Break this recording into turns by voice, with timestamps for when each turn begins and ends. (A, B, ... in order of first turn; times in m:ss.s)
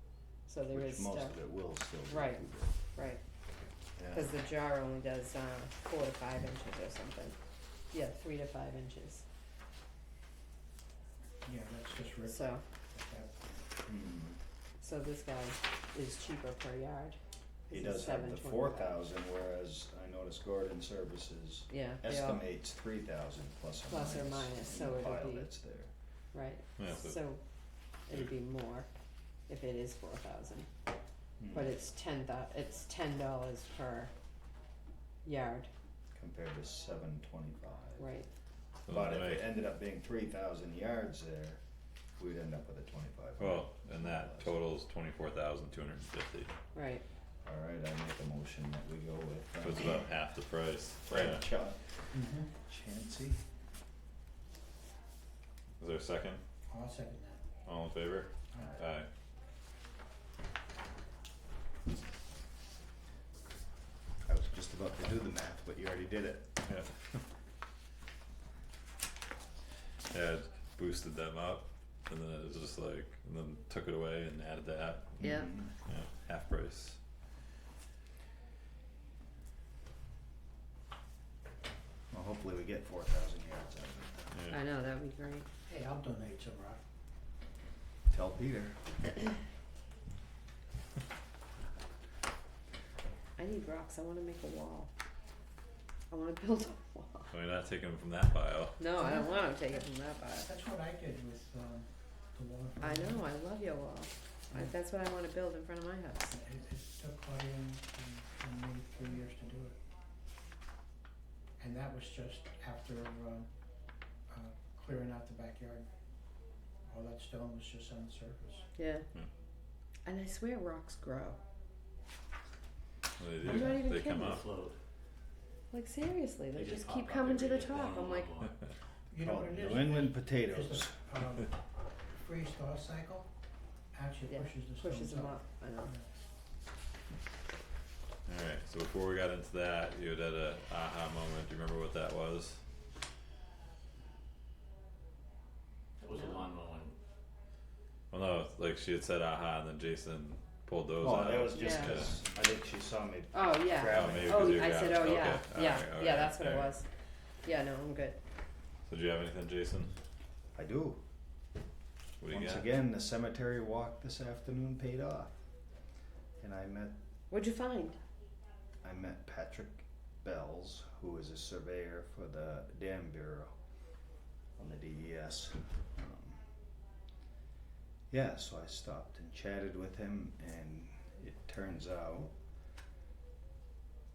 0:00.5-0:01.4 A
0:00.7-0:02.8 B
0:02.1-0:03.2 A
0:04.0-0:04.3 B
0:04.1-0:07.4 A
0:07.9-0:09.2 A
0:11.4-0:13.6 C
0:12.2-0:12.6 A
0:13.8-0:14.4 B
0:14.8-0:17.2 A
0:17.7-0:25.9 B
0:17.7-0:19.0 A
0:21.7-0:22.4 A
0:23.9-0:25.5 A
0:26.3-0:27.4 A
0:26.8-0:27.2 D
0:28.1-0:28.9 A
0:29.5-0:30.7 A
0:31.4-0:31.7 B
0:31.5-0:34.1 A
0:35.2-0:35.7 A
0:36.1-0:38.0 B
0:38.0-0:38.3 A
0:38.9-0:39.5 D
0:38.9-0:41.6 B
0:42.2-0:44.5 B
0:43.4-0:46.5 D
0:46.7-0:47.0 A
0:47.4-0:50.0 B
0:49.6-0:51.4 D
0:51.1-0:52.0 B
0:52.1-0:52.5 C
0:52.6-0:53.4 B
0:55.8-0:56.4 D
0:56.7-0:57.4 C
0:57.6-0:59.1 D
0:58.5-0:58.8 C
1:04.3-1:06.6 B
1:06.6-1:07.2 D
1:10.1-1:17.0 D
1:15.2-1:15.5 A
1:15.2-1:15.7 B
1:22.1-1:24.3 B
1:24.3-1:24.6 D
1:24.5-1:25.5 A
1:25.6-1:26.8 C
1:28.1-1:28.8 B
1:33.4-1:34.9 A
1:36.1-1:37.3 A
1:37.3-1:38.8 D
1:38.8-1:40.5 A
1:38.9-1:43.2 C
1:42.8-1:46.4 A
1:46.3-1:49.7 C
1:51.6-1:53.5 C
1:54.3-1:55.9 C
1:56.8-1:58.7 C
1:58.7-1:59.0 A
2:00.0-2:01.4 A
2:03.2-2:04.5 D
2:03.4-2:04.4 A
2:04.2-2:04.8 E
2:05.7-2:08.4 A
2:06.5-2:08.5 E
2:09.1-2:11.6 C
2:09.2-2:11.0 B
2:12.2-2:13.3 C
2:13.9-2:16.0 C
2:14.3-2:15.9 A
2:18.2-2:22.6 D
2:26.0-2:27.0 E
2:28.1-2:32.2 D
2:31.0-2:34.8 B
2:31.5-2:32.0 A
2:33.3-2:36.9 A
2:33.9-2:36.7 D
2:37.4-2:38.2 A
2:38.9-2:39.9 D
2:40.5-2:41.0 B
2:42.2-2:42.6 D
2:42.3-2:45.4 B
2:46.4-2:46.9 B
2:47.3-2:48.0 A
2:48.8-2:53.5 B
2:54.6-2:56.4 B
2:58.1-3:02.3 B